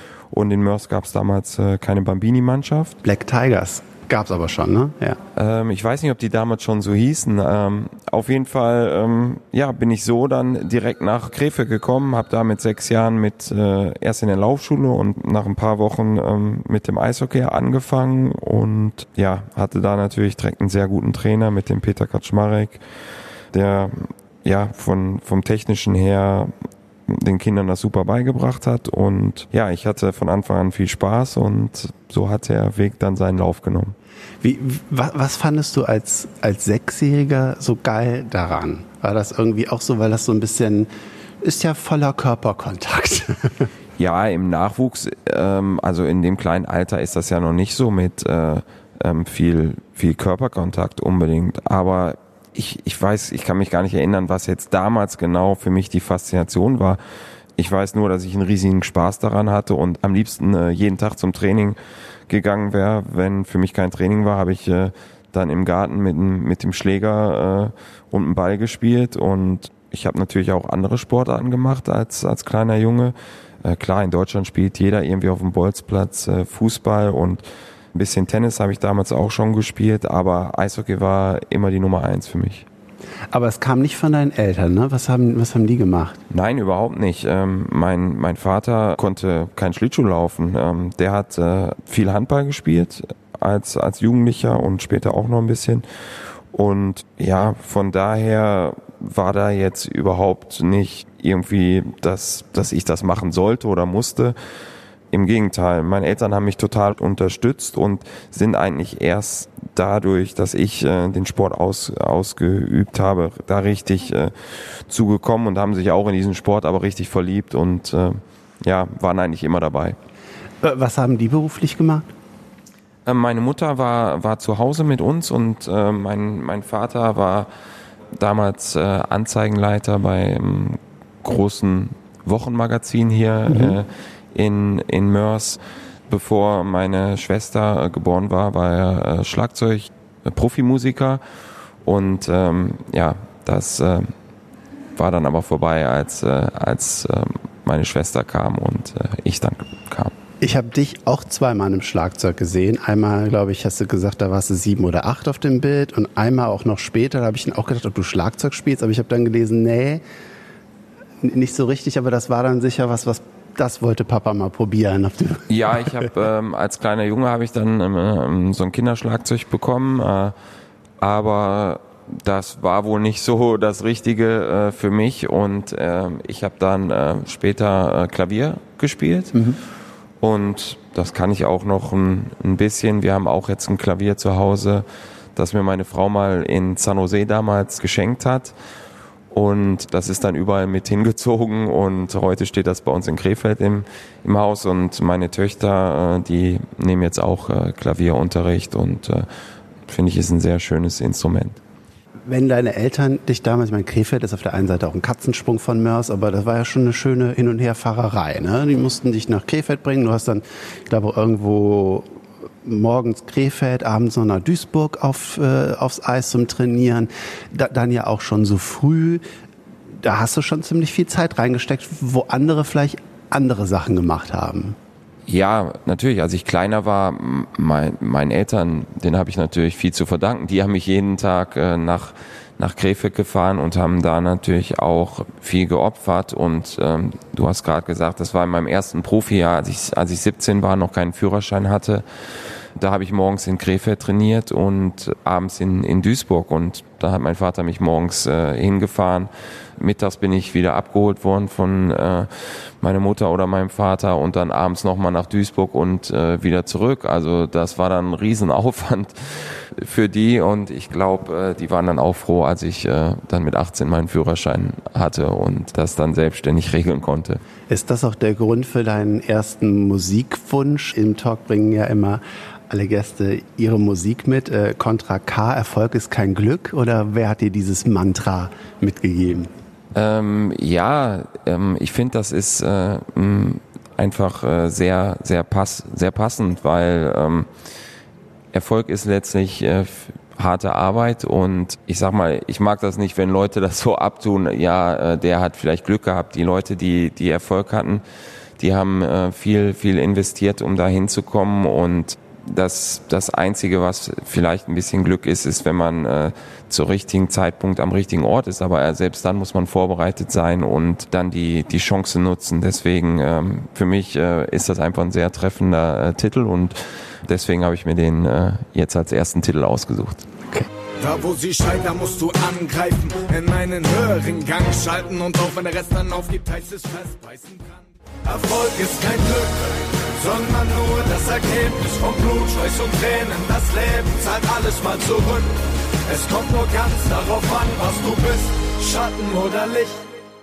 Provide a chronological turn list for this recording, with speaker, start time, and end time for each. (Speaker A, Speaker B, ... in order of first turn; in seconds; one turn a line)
Speaker A: 0.3-3.0
Speaker B: 3.0-5.2
Speaker A: 5.3-22.8
Speaker A: 23.5-26.5
Speaker A: 27.1-34.0
Speaker B: 34.4-40.9
Speaker B: 41.4-43.7
Speaker A: 44.0-57.0
Speaker A: 57.6-61.8
Speaker A: 62.3-77.4
Speaker A: 77.9-82.7
Speaker B: 83.3-86.2
Speaker A: 86.3-95.8
Speaker A: 96.5-104.3
Speaker A: 105.1-120.0
Speaker B: 120.6-122.1
Speaker A: 123.0-127.5
Speaker A: 128.2-141.2
Speaker B: 133.5-133.8
Speaker A: 141.8-144.1
Speaker A: 144.9-150.1
Speaker B: 150.4-160.0
Speaker B: 161.2-165.5
Speaker A: 165.5-170.3
Speaker A: 171.0-179.4
Speaker B: 179.3-179.6
Speaker A: 180.2-188.5
Speaker A: 189.3-199.3
Speaker A: 199.9-201.6
Speaker B: 202.3-212.1
Speaker B: 212.6-219.2
Speaker B: 220.0-224.8
Speaker A: 225.3-242.0
Speaker A: 242.8-267.4
Speaker B: 267.7-279.5
Speaker A: 279.9-287.5
Speaker A: 288.5-298.0
Speaker A: 298.6-320.2
Speaker C: 321.0-335.5
Speaker C: 336.1-340.0